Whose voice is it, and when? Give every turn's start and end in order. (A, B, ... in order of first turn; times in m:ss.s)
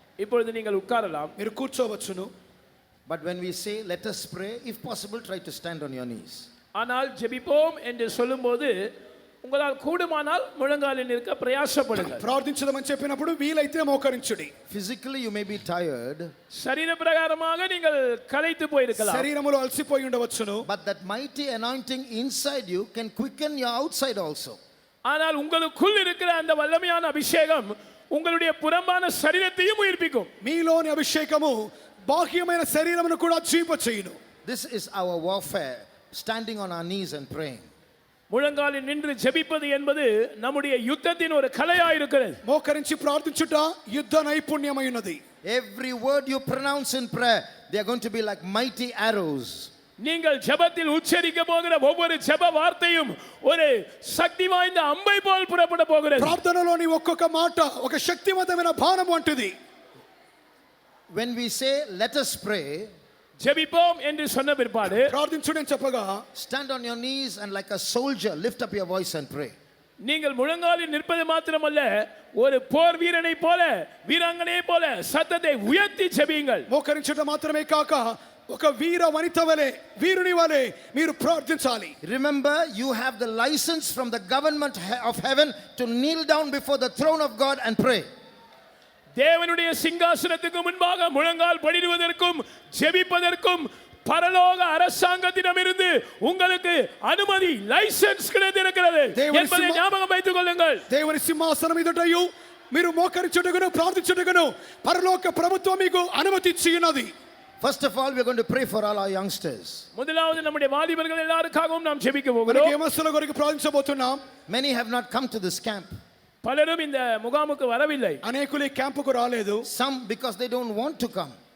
0:00.2-0:01.4 A
0:01.4-0:02.3 B
0:03.1-0:06.5 C
0:06.8-0:08.9 A
0:09.4-0:12.2 A
0:12.0-0:14.5 B
0:14.7-0:16.3 C
0:16.5-0:19.3 A
0:19.0-0:20.6 B
0:20.6-0:24.6 C
0:25.1-0:30.3 A
0:30.4-0:34.2 B
0:34.4-0:37.7 C
0:38.3-0:42.4 A
0:42.4-0:45.2 B
0:45.4-0:49.7 C
0:50.0-0:56.4 A
0:56.2-0:59.6 B
1:01.1-1:02.9 C
1:03.4-1:05.1 A
1:05.0-1:06.2 B
1:06.4-1:09.5 C
1:10.0-1:16.7 A
1:16.7-1:22.0 B
1:22.0-1:28.1 C
1:29.2-1:40.8 A
1:39.2-1:39.8 B
1:40.9-1:47.1 B
1:47.6-1:49.8 C
1:50.0-1:52.8 A
1:52.5-1:54.2 B
1:54.5-1:55.9 C
1:56.4-1:58.2 A
1:58.2-1:59.6 B
1:59.6-2:01.4 C